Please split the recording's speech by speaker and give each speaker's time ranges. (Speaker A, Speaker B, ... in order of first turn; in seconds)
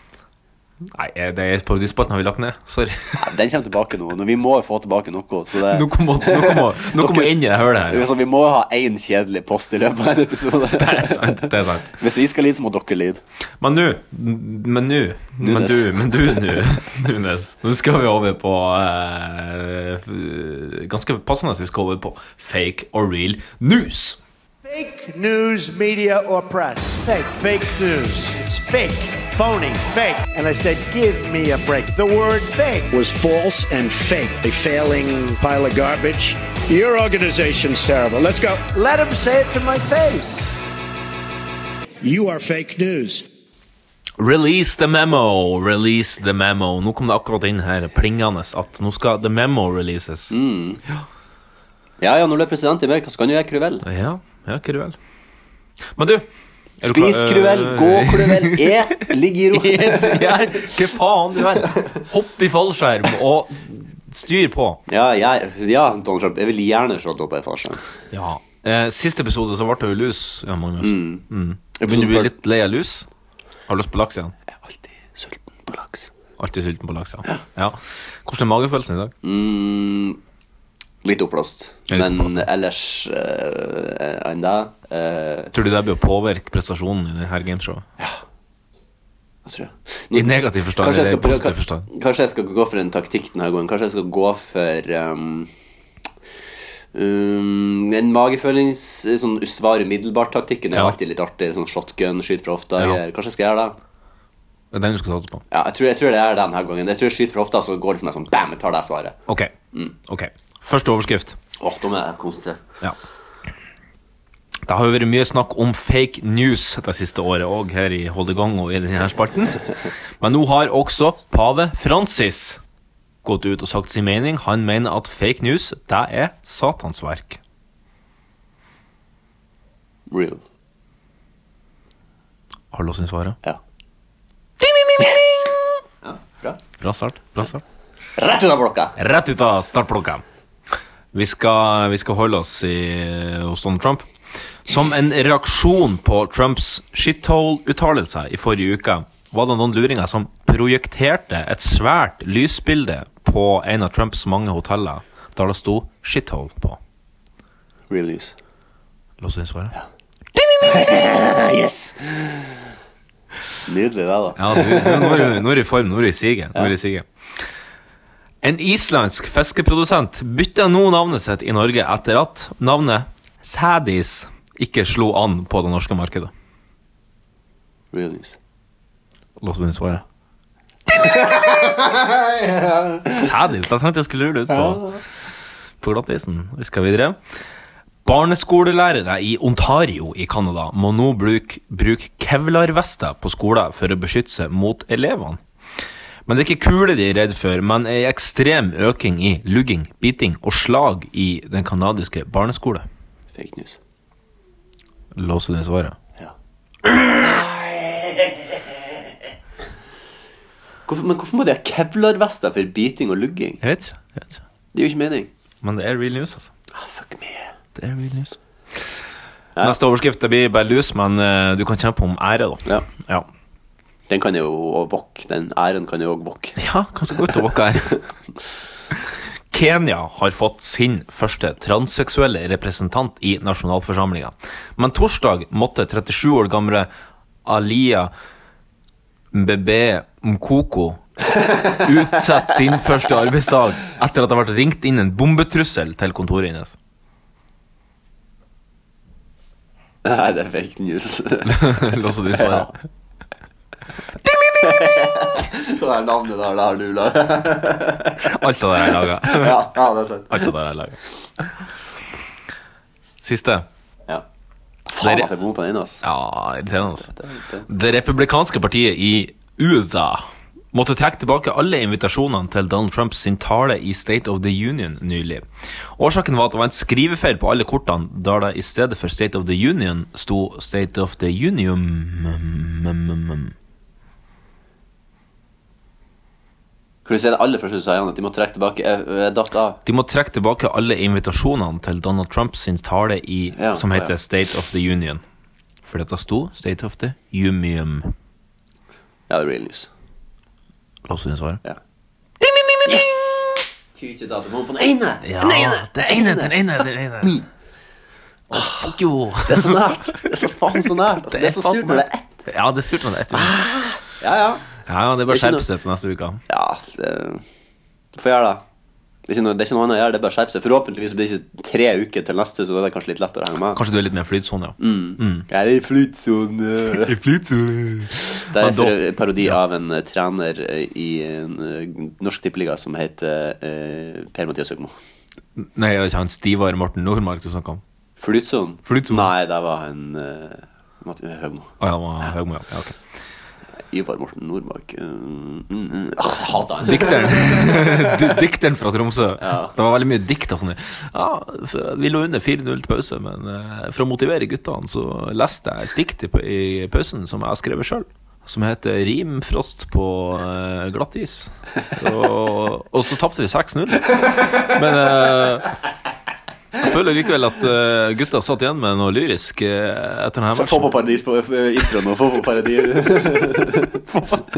Speaker A: 0.9-3.3, 5.7-8.1, 10.7-11.9, 13.6-24.2, 44.2-50.3, 53.8-55.0, 55.9-56.3, 56.8-64.8, 68.1-73.1, 73.7-74.3, 76.4-79.1, 81.9-82.5, 85.5-87.9, 90.1-91.9, 104.7-105.4, 109.3-109.5, 110.0-111.4, 114.7-119.6, 120.2-122.6, 123.2-127.4, 132.7-133.4, 134.6-135.5, 136.8-137.6, 139.0-140.2, 141.1-144.1, 144.7-156.8, 159.2-159.8, 164.4-167.1, 168.4-176.3, 179.4-180.0, 183.2-184.9, 185.8-187.2, 188.1-195.4, 196.3-202.8, 205.1-206.0, 213.6-214.4, 215.6-216.5, 217.8-218.4, 219.6-223.3, 226.6-228.0, 228.9-236.9, 237.4-238.1, 239.3-241.0, 241.6-246.8, 251.4-252.7, 258.2-259.7, 260.3-261.5, 263.2-263.7, 265.0-265.3, 266.0-267.1, 267.7-283.5, 289.9-295.2, 295.8-298.1, 301.1-301.6, 302.4-303.4, 305.2-307.4, 308.5-309.8, 311.3-313.6, 314.9-316.4, 323.7-325.5, 327.0-329.6, 335.6-337.8, 338.9-339.3, 341.8-343.0, 346.8-365.7, 366.8-371.0, 374.1-374.4
Speaker B: 3.2-13.2, 15.4-16.5, 50.3-50.8, 52.0-53.9, 56.8-60.8, 64.9-67.8, 70.8-71.2, 71.8-72.3, 74.6-76.1, 79.2-80.2, 81.0-85.5, 89.5-95.5, 96.9-103.8, 105.5-109.2, 111.6-112.6, 130.1-130.4, 136.0-136.6, 138.2-138.9, 157.9-158.3, 160.6-162.6, 163.7-165.3, 177.9-178.4, 181.0-183.1, 203.4-203.8, 207.2-208.6, 210.9-213.6, 214.7-215.3, 216.7-217.5, 224.1-226.6, 250.0-251.7, 252.3-252.7, 254.6-258.2, 259.2-260.5, 264.9-266.0, 267.0-267.7, 287.1-289.8, 293.6-294.1, 299.3-299.9, 302.9-303.3, 303.9-306.5, 308.5-308.9, 309.4-312.4, 313.3-314.6, 315.3-315.6, 316.5-317.4, 318.1-318.6, 319.3-323.8, 324.8-327.2, 328.5-334.9, 338.2-341.7, 343.9-348.2, 349.4-349.7, 370.5-374.0
Speaker C: 24.6-40.6, 42.0-43.3